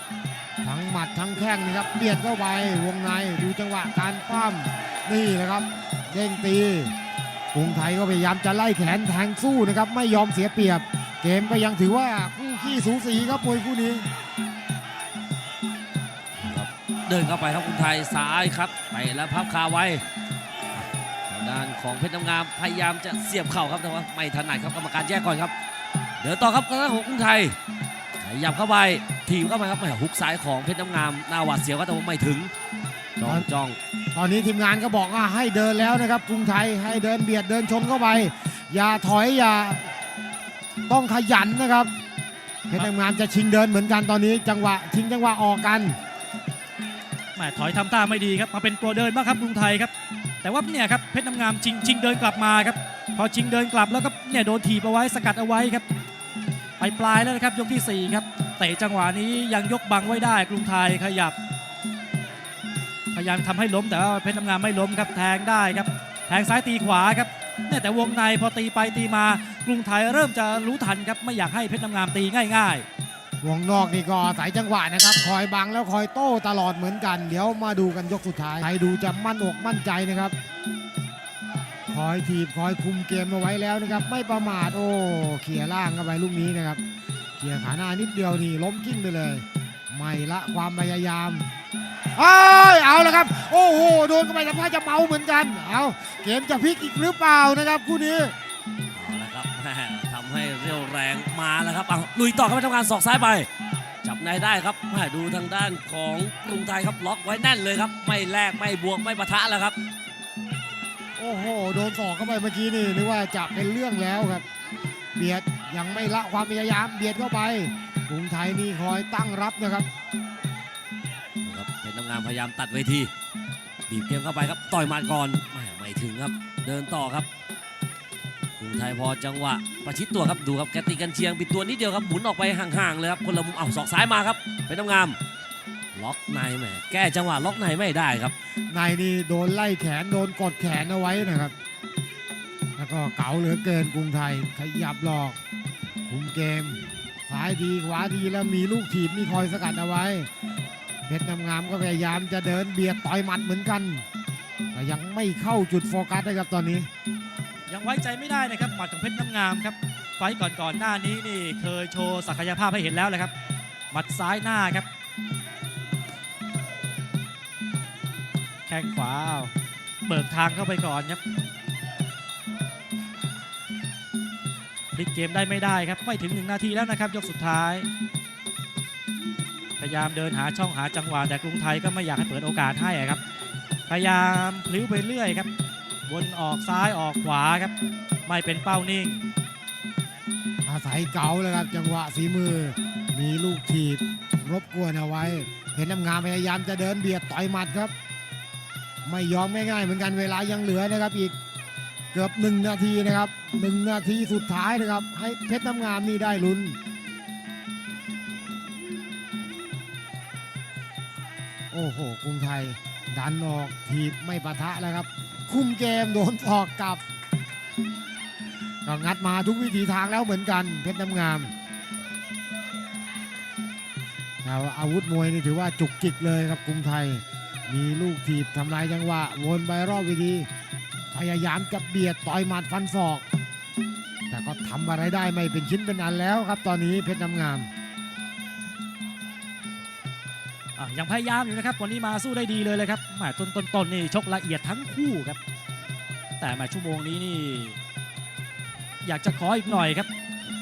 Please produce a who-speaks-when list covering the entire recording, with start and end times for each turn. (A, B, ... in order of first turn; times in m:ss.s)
0:00.6-0:06.9 A
0:07.5-0:14.1 A
0:16.4-0:20.0 B
0:21.3-0:25.5 B
0:26.2-0:27.6 B
0:28.2-0:32.5 B
0:33.2-0:33.8 B
0:34.1-0:39.9 A
0:40.9-0:41.9 A
0:42.7-0:46.0 A
0:47.4-0:49.9 C
0:50.4-0:55.8 C
0:56.8-1:01.4 C
1:03.1-1:12.8 C
1:13.4-1:20.3 A
1:21.9-1:26.8 A
1:27.4-1:31.5 A
1:32.1-1:38.3 A
1:38.9-1:43.5 B
1:44.0-1:49.8 B
1:51.2-1:54.4 A
1:55.2-1:59.9 A
2:01.4-2:03.1 B
2:03.9-2:07.3 B
2:08.6-2:15.2 B
2:15.9-2:18.3 B
2:18.7-2:21.5 A
2:22.8-2:25.4 A
2:26.0-2:30.3 A
2:31.1-2:34.0 A
2:34.7-2:36.9 A
2:37.7-2:43.3 C
2:43.9-2:44.9 C
2:48.7-2:49.5 C
2:50.0-2:51.2 C
2:54.9-2:57.9 C
2:59.8-3:03.2 C
3:03.9-3:05.5 C
3:06.0-3:07.7 C
3:08.2-3:09.2 C
3:10.6-3:17.9 A
3:19.0-3:21.3 A
3:22.1-3:26.8 A
3:31.7-3:37.0 A
3:38.8-3:41.5 A
3:44.4-3:50.5 A
3:51.1-3:53.2 A
3:54.3-3:57.7 A
4:00.8-4:05.4 C
4:06.4-4:07.8 C
4:09.0-4:10.1 C